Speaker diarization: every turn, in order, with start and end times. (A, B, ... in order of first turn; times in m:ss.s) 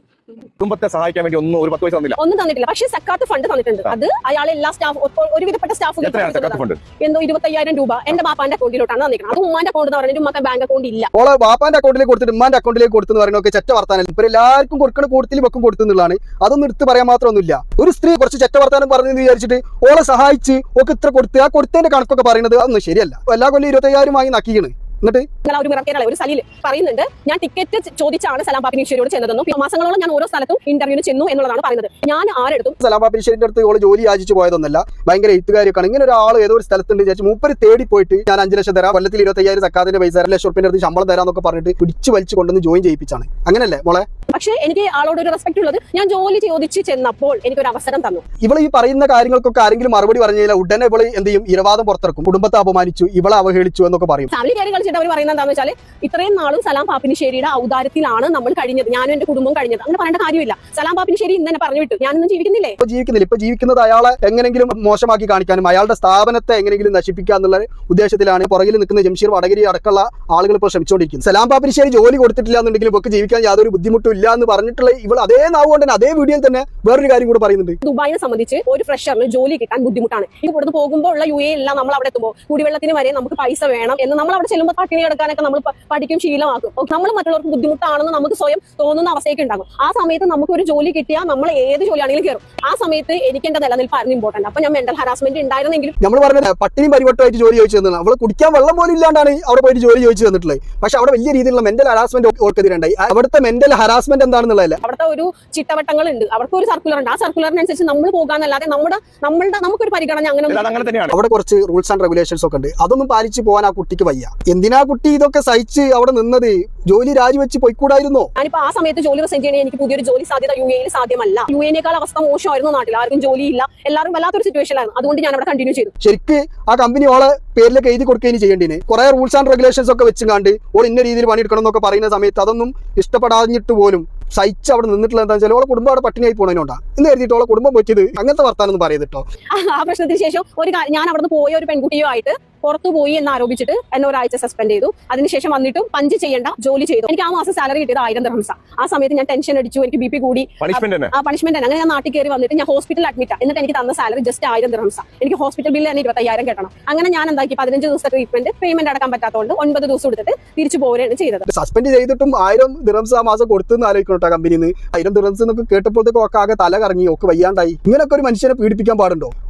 0:00.6-0:02.2 A
0:02.2-0:11.1 B
0:06.0-0:06.8 A
0:11.1-0:25.3 C
0:25.4-0:32.8 B
0:32.8-0:44.1 C
0:44.3-0:48.2 B
0:48.4-0:54.3 C
0:54.3-1:02.8 B
1:02.8-1:17.8 C
1:17.8-1:36.0 B
1:36.0-1:44.8 C
1:44.8-1:50.9 B
1:50.5-1:51.2 A
1:51.1-1:58.3 C
1:58.4-2:05.9 B
2:06.0-2:19.2 C
2:19.5-2:41.5 B
2:30.6-2:31.1 A
2:41.5-2:49.3 C